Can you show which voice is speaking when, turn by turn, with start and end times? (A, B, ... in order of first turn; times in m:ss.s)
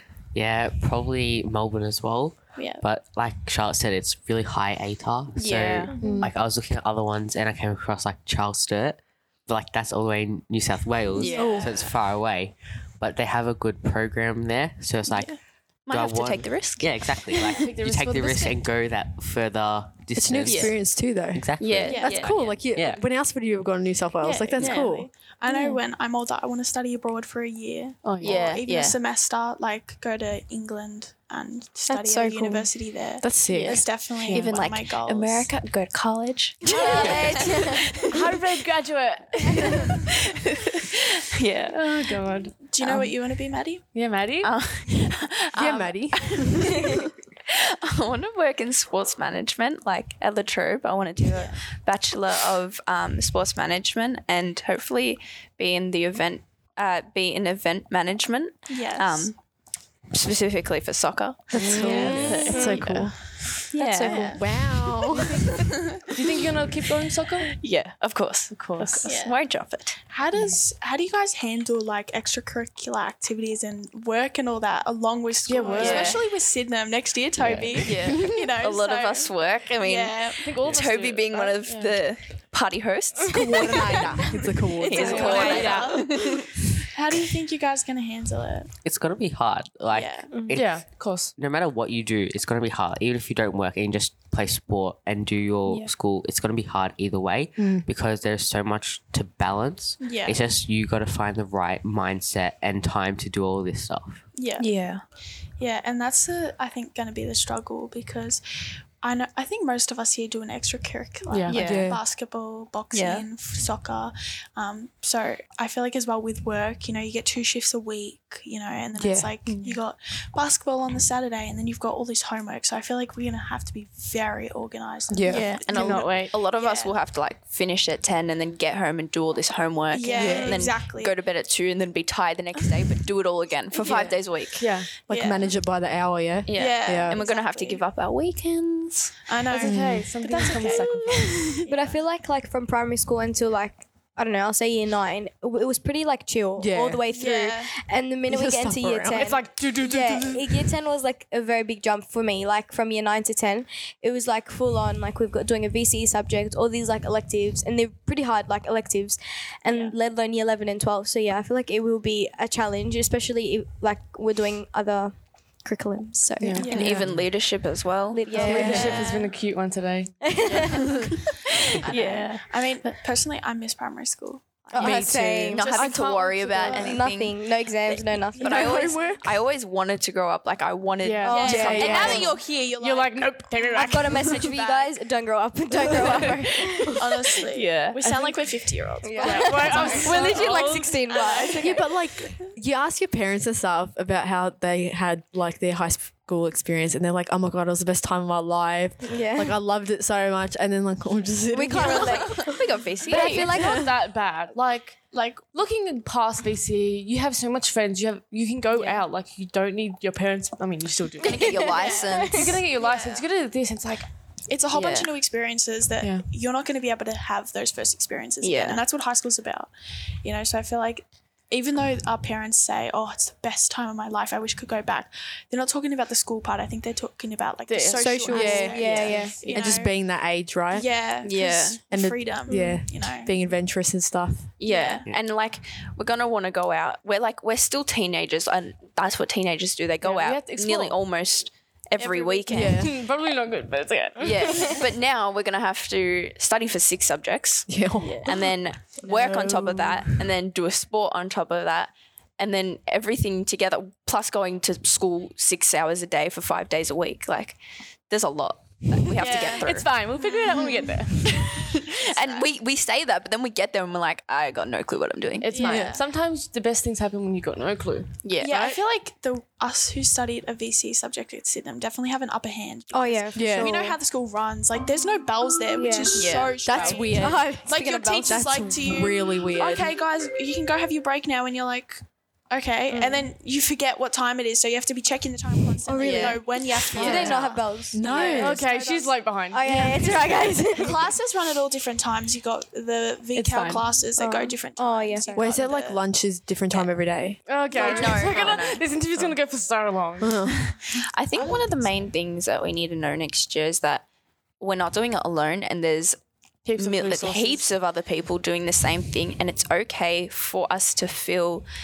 0:00.3-0:15.4 A
0:02.6-0:02.8 B
0:05.4-0:05.9 C
0:05.9-0:06.2 B
0:06.0-0:06.3 D
0:11.2-0:11.7 C
0:11.2-0:11.8 B
0:11.4-0:11.8 E
0:15.9-0:16.9 C
0:15.9-0:20.8 A
0:17.5-0:18.6 D
0:20.2-0:25.1 E
0:20.5-0:20.8 C
0:21.4-0:23.0 A
0:21.6-0:22.4 C
0:21.9-0:22.3 B
0:24.2-0:35.5 B
0:24.6-0:24.9 C
0:28.0-0:28.5 D
0:28.2-0:29.0 C
0:31.9-0:32.7 F
0:33.2-0:34.5 E
0:33.5-0:38.1 C
0:36.7-0:38.1 F
0:36.8-0:40.0 D
0:36.8-0:37.4 B
0:40.3-0:41.9 C
0:41.7-0:42.6 D
0:42.6-0:43.8 B
0:43.9-0:44.5 D
0:44.4-0:59.4 C
0:45.5-0:46.9 E
0:51.3-0:51.6 B
0:58.7-0:59.3 B
1:00.1-1:04.8 C
1:01.6-1:02.8 D
1:01.6-1:05.5 E
1:01.8-1:02.9 F
1:01.9-1:02.6 B
1:04.0-1:04.5 B
1:06.0-1:07.6 D
1:07.6-1:10.0 C
1:08.5-1:09.1 D
1:08.9-1:09.4 B
1:10.1-1:20.5 B
1:15.5-1:16.2 D
1:15.7-1:16.2 C
1:17.4-1:17.7 D
1:17.8-1:24.0 C
1:20.4-1:22.0 D
1:23.3-1:25.5 E
1:24.3-1:25.1 F
1:24.9-1:28.7 B
1:24.9-1:26.5 C
1:24.9-1:26.1 D
1:28.8-1:44.2 A
1:29.9-1:30.4 B
1:30.3-1:30.6 F
1:30.5-1:31.3 D
1:37.6-1:37.9 E
1:40.0-1:40.4 B
1:44.4-1:44.7 B
1:44.6-1:45.0 C
1:45.6-1:48.4 B
1:49.0-2:07.0 B
1:51.3-1:51.6 D
1:51.5-1:51.9 C
1:51.6-1:52.0 E
1:52.9-1:53.2 C
1:59.0-1:59.4 E
1:59.5-1:59.8 C
2:05.1-2:05.6 E
2:05.3-2:14.7 C
2:05.7-2:06.4 D
2:09.9-2:11.2 B
2:10.2-2:10.6 E
2:13.7-2:14.3 B
2:14.6-2:14.9 D
2:15.1-2:15.5 B
2:15.1-2:17.2 E
2:16.5-2:19.2 C
2:16.5-2:17.8 B
2:19.3-2:22.0 B
2:19.5-2:21.4 D
2:19.6-2:20.1 E
2:20.6-2:21.3 C
2:21.7-2:46.7 F
2:26.6-2:27.0 E
2:27.1-2:27.7 B
2:28.3-2:29.4 E
2:29.1-2:30.7 D
2:46.4-2:46.7 D
2:46.6-2:46.9 B
2:46.6-2:48.8 C
2:46.8-2:47.1 E
2:46.9-2:47.3 A
2:48.1-2:49.0 F
2:48.3-2:50.3 D
2:48.4-2:48.9 E
2:48.4-2:49.3 B
2:50.2-2:51.1 F
2:51.7-2:57.1 B
2:51.8-2:52.5 C
2:54.7-2:55.8 F
2:54.8-2:55.5 E
2:55.4-2:57.4 C
2:55.7-2:57.0 D
2:56.7-2:59.2 F
2:57.9-2:59.2 B
2:58.4-3:02.4 C
3:01.0-3:04.4 D
3:01.2-3:05.0 B
3:01.5-3:02.3 E
3:03.8-3:07.2 F
3:05.8-3:12.5 B
3:06.0-3:06.3 D
3:07.5-3:08.0 C
3:08.0-3:08.6 D
3:09.0-3:11.9 F
3:09.2-3:11.1 D
3:09.2-3:10.2 C
3:09.8-3:10.1 E
3:11.6-3:22.5 E
3:19.0-3:19.6 F
3:21.5-3:23.8 F
3:22.2-3:23.6 C
3:23.1-3:34.1 D
3:23.5-3:23.9 E
3:31.2-3:32.6 C
3:31.3-3:32.5 F
3:32.8-3:33.2 B
3:34.5-3:39.7 B
3:34.7-3:35.1 C
3:36.0-3:36.3 D
3:38.4-3:38.8 C
3:40.2-3:50.0 B
3:47.7-3:49.5 D
3:47.9-3:49.6 F
3:48.3-3:48.9 E
3:48.6-3:49.4 C
3:49.5-3:50.9 E
3:50.7-3:53.4 B
3:51.2-3:51.8 C
3:51.9-3:54.6 E
3:52.5-3:52.9 F
3:54.6-4:02.9 C
3:54.6-3:55.0 B
4:00.0-4:01.0 D
4:02.0-4:02.8 B
4:02.5-4:03.0 E
4:02.6-4:04.8 D
4:04.2-4:19.9 C
4:07.7-4:08.3 E
4:09.0-4:09.8 D
4:19.2-4:19.7 B
4:19.2-4:21.6 D
4:21.3-4:26.0 C
4:22.0-4:22.5 B
4:25.4-4:28.1 D
4:25.5-4:26.0 B
4:25.6-4:26.0 E
4:28.2-4:28.6 C
4:28.4-4:56.0 B
4:32.9-4:34.0 F
4:33.3-4:33.8 E
4:35.8-4:36.2 F
4:36.1-4:37.3 C
4:36.6-4:39.9 E
4:42.9-4:43.3 F
4:45.9-4:48.5 F
4:46.0-4:47.6 C
4:47.9-4:48.7 E
4:48.3-4:50.5 D
4:49.5-4:51.1 F
4:53.3-4:53.8 D
4:54.2-4:55.6 F
4:55.3-4:57.4 E
4:57.5-5:00.4 D
4:57.7-4:58.8 C
4:57.9-4:58.5 B
5:00.2-5:00.6 E
5:01.0-5:04.1 C
5:01.3-5:01.9 B
5:04.6-5:06.2 C
5:06.6-5:07.7 D
5:06.8-5:11.6 C